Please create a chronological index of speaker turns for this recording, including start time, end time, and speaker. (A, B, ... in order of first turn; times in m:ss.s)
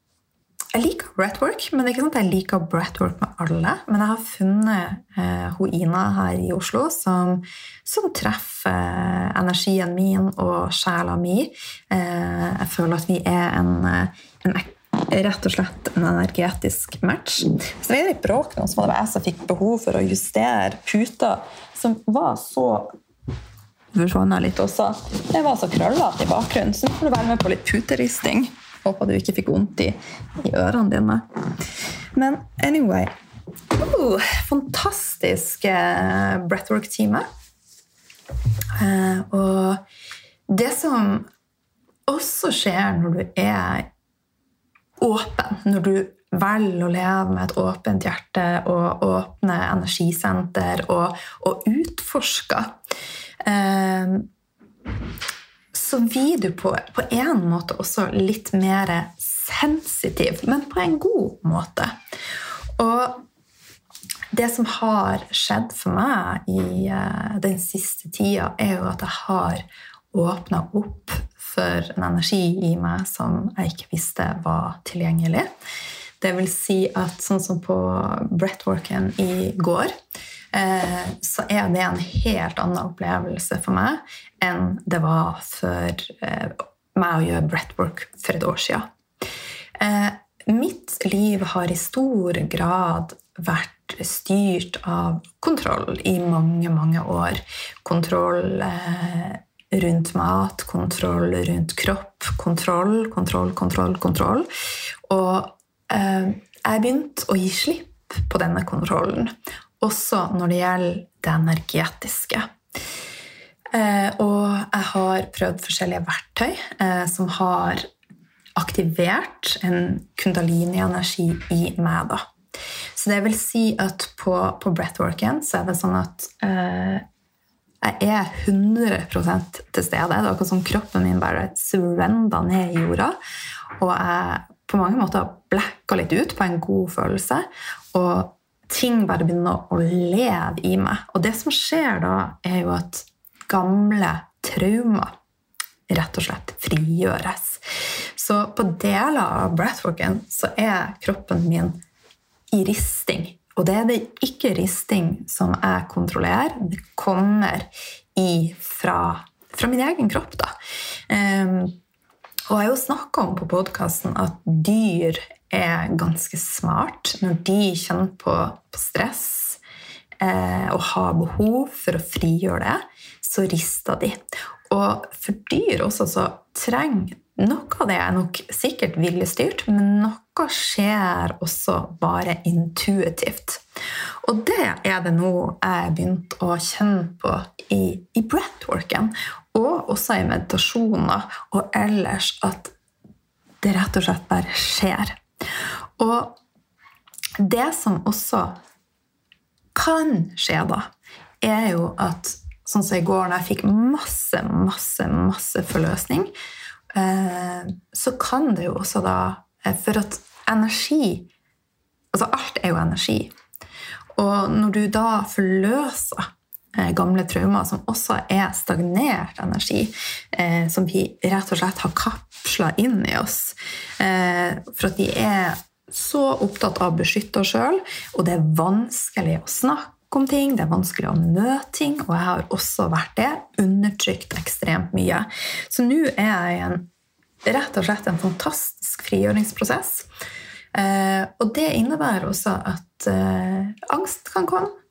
0:00.7-0:23.0 A
0:23.9-0:31.2 A
0:32.2-0:33.1 A
0:33.7-0:37.3 A
0:38.8-0:39.8 A
0:40.5-0:41.3 A
0:42.1-0:43.9 A
0:45.0-0:52.7 A
0:53.4-0:54.3 A
0:55.7-1:02.0 A
1:02.8-1:03.2 A
1:04.3-1:15.5 A
1:16.2-1:19.9 A
1:20.5-1:28.9 A
1:29.8-1:44.5 A
1:45.1-1:52.5 A
1:53.7-1:57.8 A
1:58.6-2:02.3 A
2:03.0-2:07.0 A
2:07.8-2:13.2 A
2:13.8-2:25.1 A
2:25.9-2:27.6 A
2:28.2-2:31.8 A
2:32.5-2:40.5 A
2:41.1-2:41.8 A
2:42.5-2:49.6 A
2:50.2-3:03.6 A
3:04.2-3:12.7 A
3:13.6-3:15.2 A
3:16.0-3:16.4 A
3:17.4-3:18.6 A
3:19.8-3:20.9 A
3:21.4-3:26.3 A
3:27.0-3:31.3 A
3:32.1-3:33.3 A
3:34.2-3:56.9 A
3:57.4-4:00.1 A
4:00.7-4:04.7 A